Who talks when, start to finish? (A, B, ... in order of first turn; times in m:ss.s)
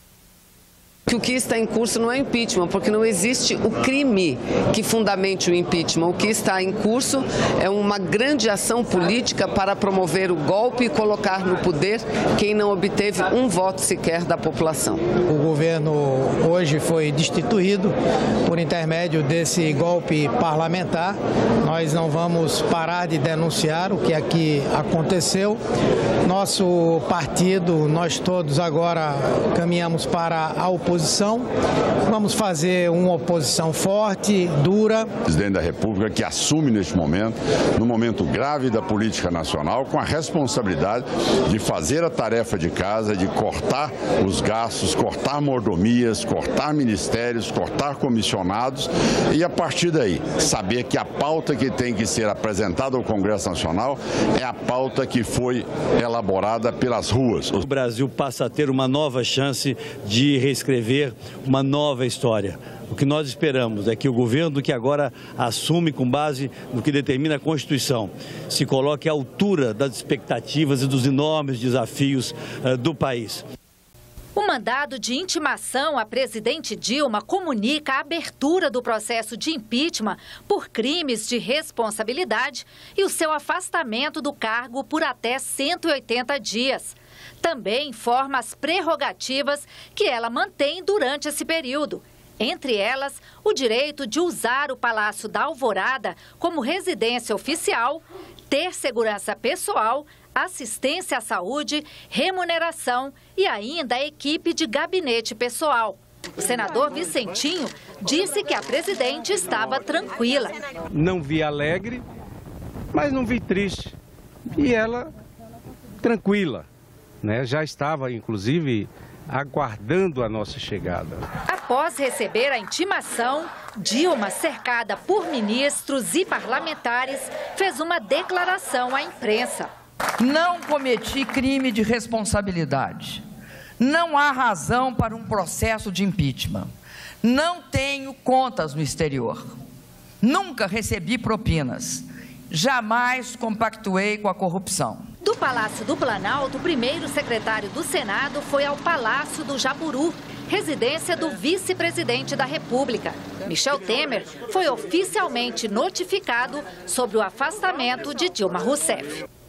0:01.1-0:15.0 A
0:15.3-0:17.9 B
0:18.5-0:25.6 B
0:26.3-0:31.4 B
0:32.1-0:35.1 B
0:35.3-0:57.6 C
0:57.6-1:13.4 D
1:14.4-1:50.6 E
1:51.0-1:52.0 F
1:53.0-1:53.9 F
1:54.6-1:55.0 F
1:56.0-1:56.6 F
1:57.2-2:01.2 F
2:01.5-2:09.7 E
2:10.2-2:13.2 G
2:13.8-2:16.7 G
2:17.2-2:19.4 G
2:20.2-2:25.0 G
2:25.2-2:39.2 E